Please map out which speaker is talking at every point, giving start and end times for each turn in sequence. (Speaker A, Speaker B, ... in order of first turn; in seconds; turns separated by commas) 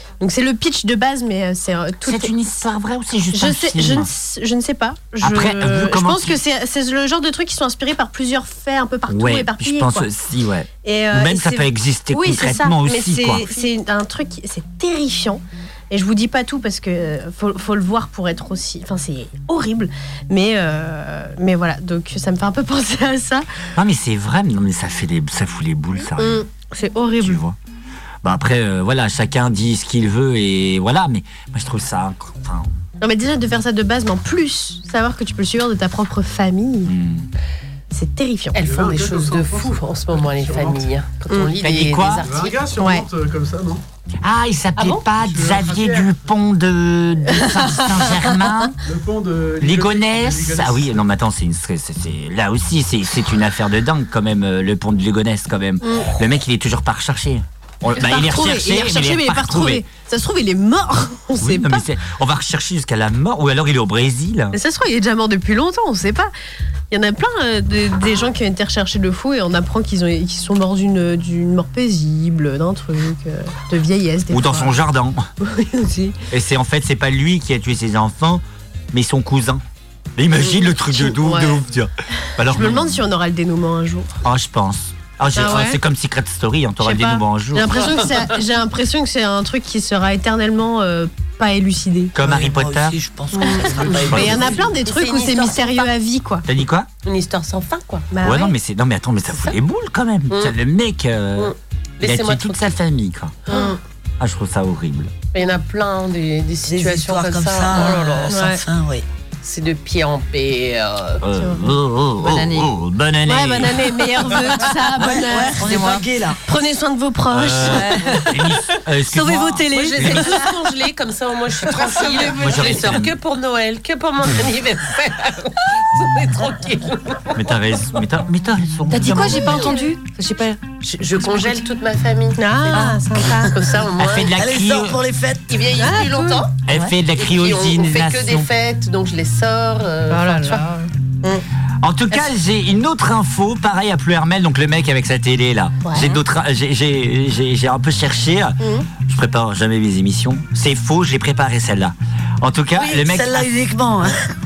Speaker A: 0.2-2.3, Speaker B: 2.0-4.1, Speaker A: 3.3-10.1, Speaker B: 5.2-6.4, Speaker B: 9.1-13.4, Speaker A: 10.8-23.4, Speaker B: 23.8-26.4, Speaker A: 26.1-27.4, Speaker B: 27.2-27.6, Speaker B: 28.2-32.7, Speaker A: 33.0-36.9, Speaker B: 36.9-37.3, Speaker A: 37.9-38.6, Speaker C: 38.5-42.6, Speaker D: 38.6-40.9, Speaker B: 41.6-42.2, Speaker D: 42.2-43.8, Speaker A: 42.8-43.1, Speaker B: 44.2-48.8, Speaker D: 45.1-46.1, Speaker A: 47.6-48.1, Speaker D: 48.9-51.0, Speaker B: 49.6-59.8, Speaker A: 55.8-56.1, Speaker A: 57.9-61.9, Speaker B: 61.4-64.6, Speaker A: 64.5-66.3, Speaker A: 66.9-74.8, Speaker B: 74.3-75.3, Speaker A: 75.4-76.2, Speaker B: 76.3-79.6, Speaker B: 80.2-83.0, Speaker A: 80.4-81.7, Speaker A: 82.4-84.1, Speaker B: 84.2-87.9, Speaker A: 85.3-85.8, Speaker A: 86.8-92.1, Speaker B: 92.1-93.0, Speaker E: 92.2-94.6, Speaker A: 93.4-96.5, Speaker D: 93.9-94.1, Speaker C: 93.9-95.9, Speaker B: 94.1-94.4, Speaker B: 96.5-96.9, Speaker C: 97.0-98.1, Speaker A: 98.1-98.6, Speaker B: 98.2-103.3, Speaker C: 100.3-100.5, Speaker C: 101.4-102.6, Speaker C: 103.5-103.8, Speaker A: 103.5-103.8, Speaker B: 104.2-105.1, Speaker C: 105.3-108.3, Speaker E: 106.7-109.1, Speaker A: 108.3-108.6, Speaker C: 109.4-111.2, Speaker B: 111.2-113.9, Speaker A: 111.3-111.6, Speaker F: 112.2-112.7, Speaker A: 113.3-115.9, Speaker E: 115.0-116.4, Speaker F: 115.5-116.0, Speaker A: 116.5-118.3, Speaker B: 117.3-120.3, Speaker F: 117.6-118.3, Speaker F: 119.1-120.5, Speaker C: 119.7-127.3, Speaker B: 122.3-123.1, Speaker B: 127.3-129.8, Speaker F: 128.9-130.6, Speaker A: 129.6-129.8, Speaker C: 130.8-134.3, Speaker A: 132.4-133.8, Speaker F: 132.7-133.0, Speaker B: 134.0-135.0, Speaker E: 134.3-135.8, Speaker C: 135.5-136.5, Speaker A: 135.8-136.5, Speaker B: 136.7-138.5, Speaker F: 136.7-136.9, Speaker C: 137.2-140.7, Speaker A: 140.1-140.9, Speaker B: 141.8-153.5, Speaker A: 145.8-146.2, Speaker A: 148.6-148.9, Speaker E: 152.8-154.2